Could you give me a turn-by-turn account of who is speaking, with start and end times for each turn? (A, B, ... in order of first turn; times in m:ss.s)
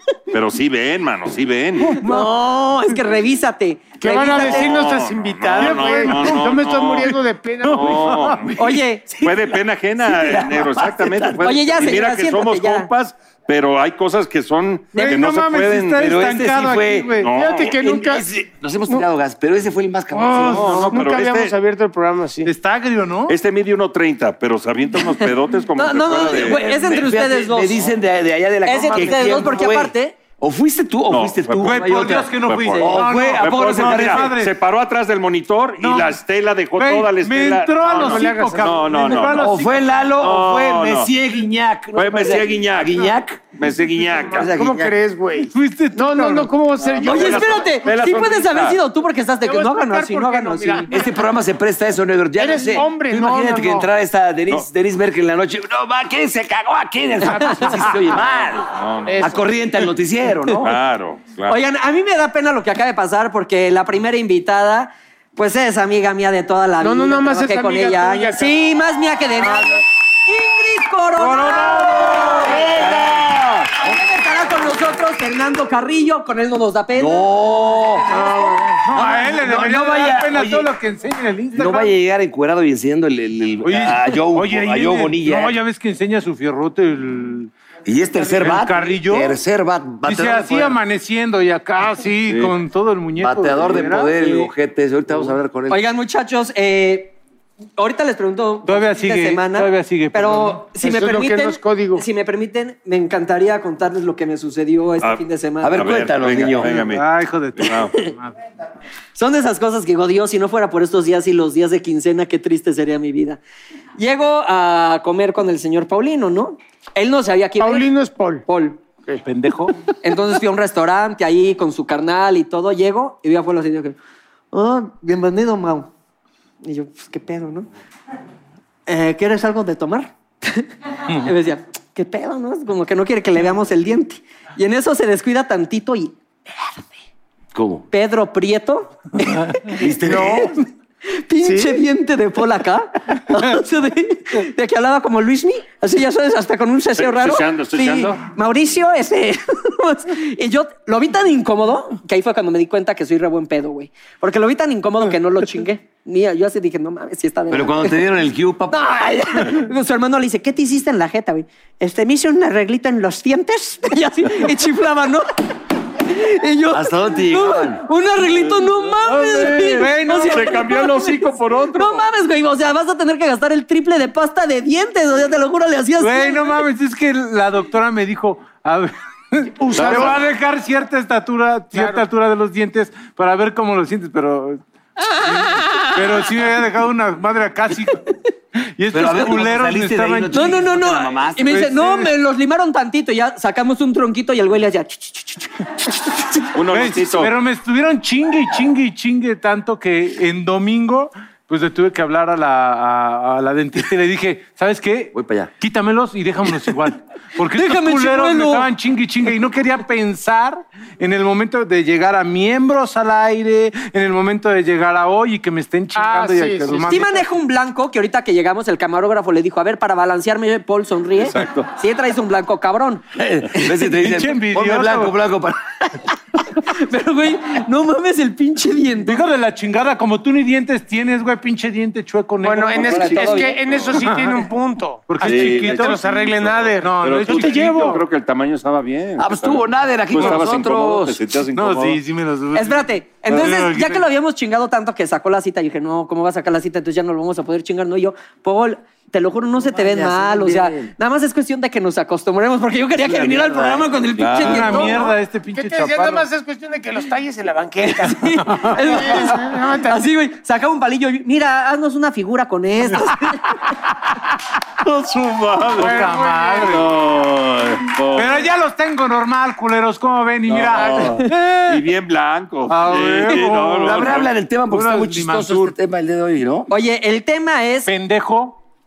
0:00.3-0:02.0 A
0:01.9-0:04.9 B
0:02.0-0:02.3 C
0:04.0-0:08.3 C
0:04.2-0:16.2 A
0:05.6-0:06.5 D
0:07.6-0:08.5 D
0:08.6-0:09.4 B
0:10.0-0:11.6 E
0:11.4-0:12.9 B
0:15.0-0:17.3 D
0:16.0-0:17.2 E
0:17.2-0:17.8 A
0:17.2-0:18.2 C
0:17.8-0:20.9 E
0:20.1-0:22.5 C
0:20.4-0:21.5 A
0:22.4-0:23.3 D
0:23.3-0:26.6 A
0:25.7-0:27.9 B
0:26.1-0:34.4 E
0:28.6-0:30.2 B
0:31.1-0:39.5 A
0:31.6-0:34.5 D
0:35.8-0:36.2 D
0:36.8-0:39.8 D
0:37.8-0:38.8 C
0:39.4-0:43.5 E
0:40.2-0:41.1 A
0:42.0-0:44.5 A
0:44.1-0:47.7 C
0:44.2-0:44.9 E
0:45.5-0:46.5 D
0:46.8-0:48.8 A
0:47.0-0:51.1 B
0:49.4-0:51.2 C
0:50.9-1:00.7 E
0:52.4-0:53.9 C
0:57.2-0:58.2 C
0:58.7-0:59.4 A
0:59.0-0:59.5 C
1:00.6-1:01.6 A
1:01.5-1:17.3 B
1:06.8-1:08.6 C
1:11.4-1:13.7 E
1:12.3-1:12.6 C
1:16.9-1:18.2 E
1:18.1-1:18.8 C
1:18.8-1:21.9 D
1:18.9-1:20.7 E
1:21.6-1:25.6 E
1:23.6-1:27.5 D
1:27.8-1:30.8 E
1:28.3-1:29.4 D
1:30.0-1:34.1 D
1:33.2-1:35.8 E
1:35.7-1:37.2 B
1:37.8-1:45.9 B
1:38.6-1:40.6 D
1:40.8-1:42.0 C
1:45.0-1:47.9 A
1:45.6-1:46.8 E
1:46.7-1:48.3 D
1:49.1-1:53.4 B
1:54.0-1:57.9 B
1:57.6-1:58.4 C
1:58.5-1:58.8 B
1:59.2-1:59.8 D
2:00.0-2:04.0 B
2:04.5-2:05.9 B
2:06.6-2:07.7 B
2:08.9-2:16.9 B
2:17.5-2:17.9 E
2:17.9-2:20.2 B
2:19.8-2:20.5 E
2:20.0-2:20.5 C
2:21.1-2:38.0 B
2:21.4-2:21.8 C
2:27.0-2:28.2 A
2:37.5-2:38.8 E
2:38.7-2:56.4 B
2:46.7-2:47.8 E
2:48.9-2:52.0 A
2:49.7-2:50.5 D
2:56.0-3:10.6 D
2:59.6-3:00.2 C
2:59.7-3:00.2 A
3:01.7-3:02.0 C
3:08.9-3:11.6 E
3:10.3-3:15.5 B
3:11.5-3:12.1 D
3:16.5-3:17.3 A
3:16.7-3:37.2 D
3:25.1-3:25.5 E
3:27.5-3:28.7 B
3:35.9-3:37.0 C
3:36.8-3:43.0 B
3:41.3-3:41.6 A
3:41.3-3:41.6 E
3:43.1-3:46.1 E
3:43.6-3:43.9 B
3:44.0-3:45.1 D
3:46.5-3:49.2 B
3:49.0-3:53.3 D
3:52.4-3:57.7 C
3:52.8-3:53.6 E
3:53.1-3:53.5 B
3:54.0-3:54.4 D
3:55.1-3:56.0 D
3:55.2-4:02.0 A
3:56.8-3:58.0 D
3:59.2-4:01.2 E
4:00.2-4:00.4 D
4:01.5-4:04.1 D
4:02.5-4:15.1 B
4:09.7-4:10.9 E
4:13.0-4:14.0 E
4:14.2-4:14.9 A
4:14.4-4:16.3 D
4:15.5-4:20.0 C
4:17.9-4:23.6 B
4:18.4-4:18.8 D
4:24.8-4:28.5 A
4:25.8-4:26.9 D
4:25.8-4:26.7 C
4:28.1-4:31.7 D
4:30.5-4:34.3 A
4:30.8-4:31.3 B
4:32.7-4:34.2 D
4:33.4-4:36.7 E
4:34.7-4:35.7 D
4:36.7-4:37.9 B
4:37.8-4:38.6 D